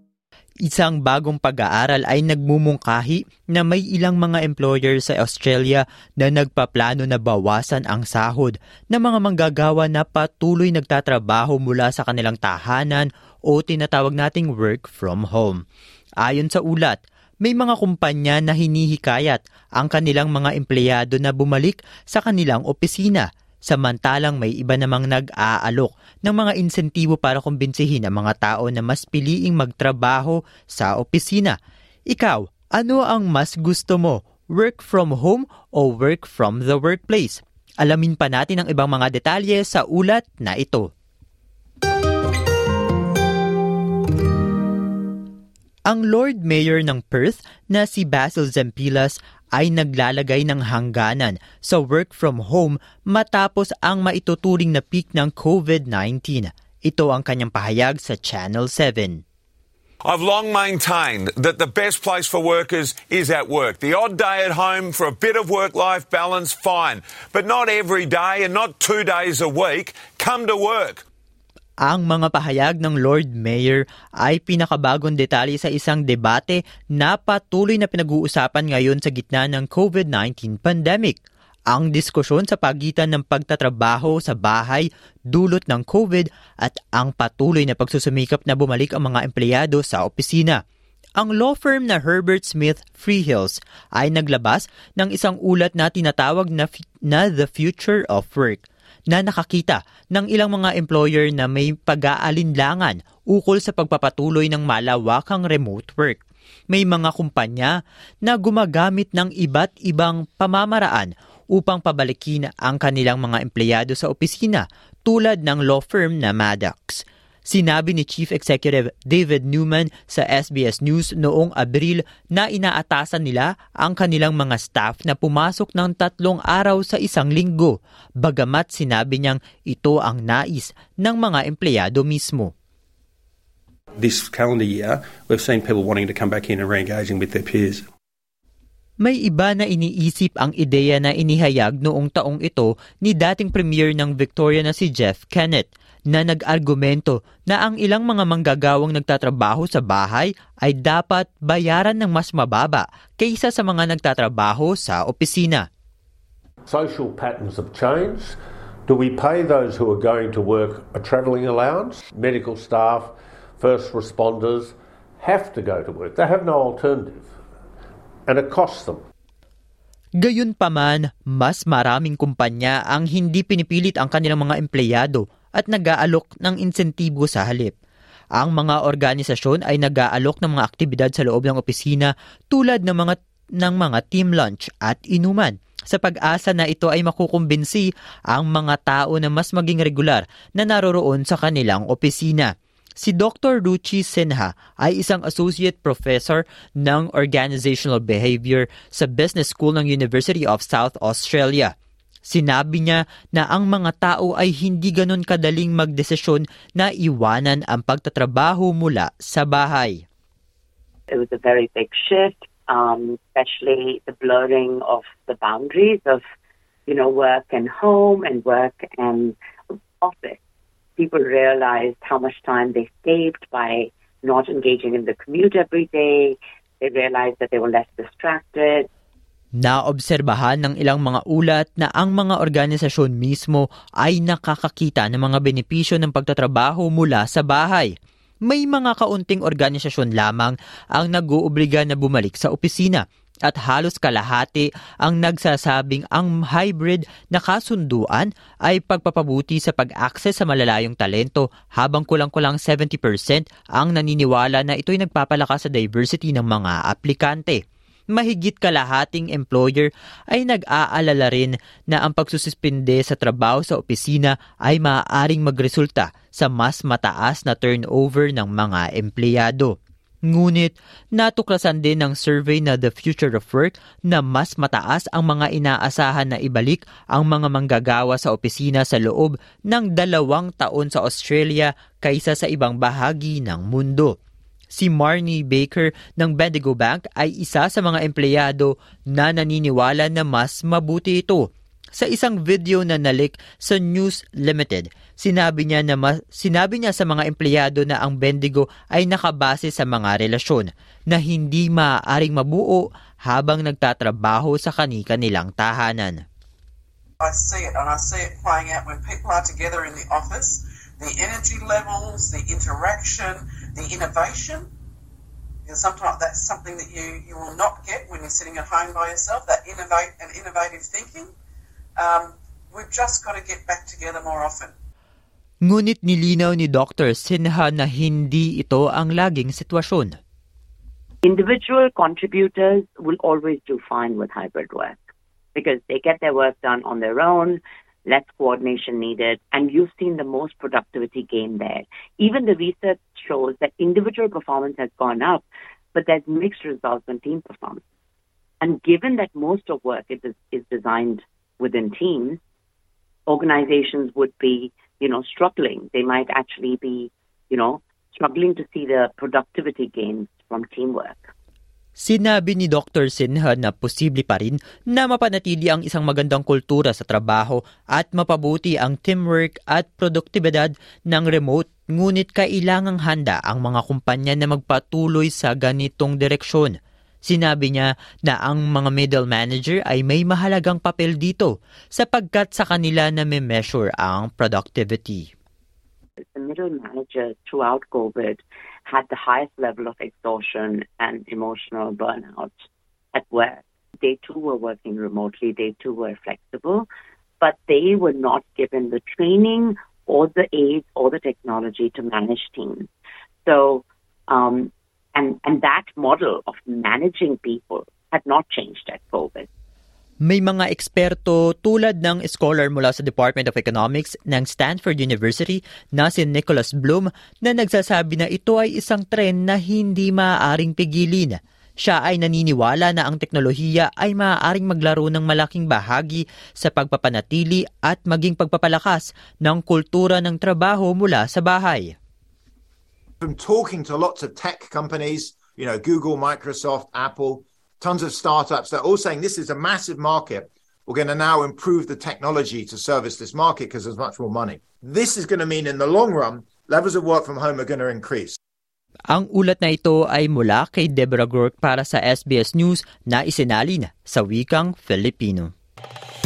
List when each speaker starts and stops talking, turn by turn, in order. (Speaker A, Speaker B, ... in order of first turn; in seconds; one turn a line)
Speaker A: 0.7-15.6
Speaker A: 16.2-31.6
Speaker A: 32.1-40.9
Speaker A: 45.9-59.2
Speaker B: 60.0-71.0
Speaker A: 71.8-81.2
Speaker A: 81.7-90.6
Speaker A: 91.2-132.5
Speaker C: 134.0-137.9
Speaker A: 139.0-155.7
Speaker D: 156.7-167.3
Speaker D: 168.3-169.0
Speaker A: 170.2-177.7
Speaker A: 178.4-201.7
Speaker A: 202.3-210.0
Speaker E: 211.1-216.2
Speaker E: 216.9-219.4
Speaker E: 220.0-220.4
Speaker E: 221.0-228.9
Speaker A: 229.6-237.9
Speaker A: 238.5-257.6
Speaker A: 258.1-269.8
Speaker A: 270.3-284.1
Speaker A: 284.7-306.2
Speaker F: 307.2-314.7
Speaker F: 315.7-321.3
Speaker F: 322.0-324.7
Speaker A: 325.6-330.2
Speaker E: 331.2-335.0
Speaker E: 335.6-347.8
Speaker E: 348.6-352.4
Speaker E: 353.3-361.3
Speaker A: 362.0-376.8
Speaker A: 377.3-385.3
Speaker E: 386.3-392.5
Speaker E: 393.1-396.9
Speaker E: 397.4-402.9
Speaker E: 403.4-409.5
Speaker A: 410.2-431.9
Speaker G: 433.2-448.4
Speaker A: 449.1-455.5